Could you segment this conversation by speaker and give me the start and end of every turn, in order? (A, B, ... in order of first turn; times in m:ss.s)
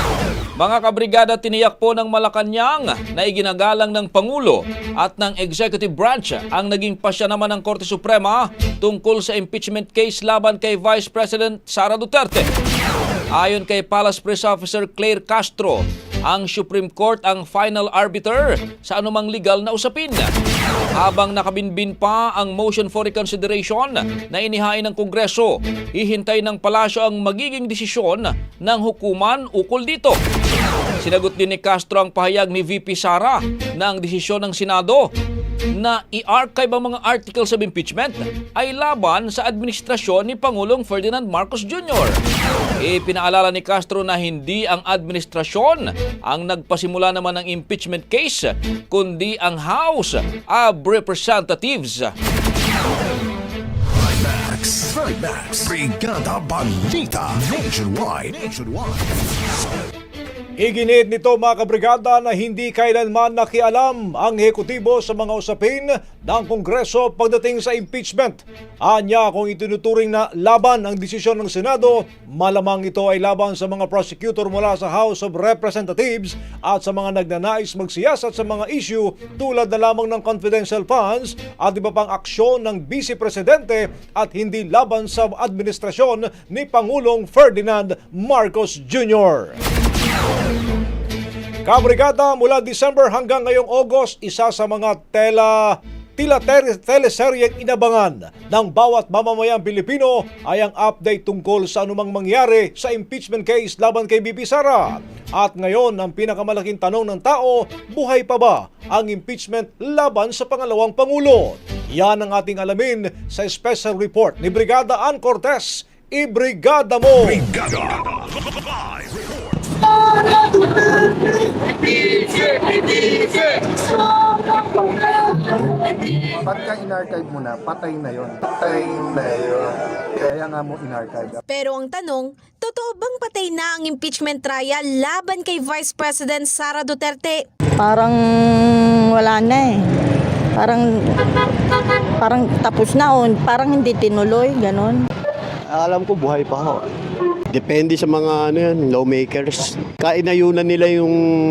0:00.6-0:12.5 A
0:13.3-0:20.3 A
0:20.9-0:30.2 A
0:31.0-0:35.1 A
0:35.7-0:42.2 A
0:42.8-0:52.1 A
0:54.0-0:59.2 B
1:00.6-1:29.6 C
1:31.6-1:57.4 C
1:57.2-1:58.3 B
2:06.2-2:11.4 D
2:11.5-2:17.4 E
2:17.8-2:19.8 F
2:20.6-2:20.8 F
2:22.2-2:24.9 F
2:25.7-2:26.8 G
2:27.5-2:31.2 G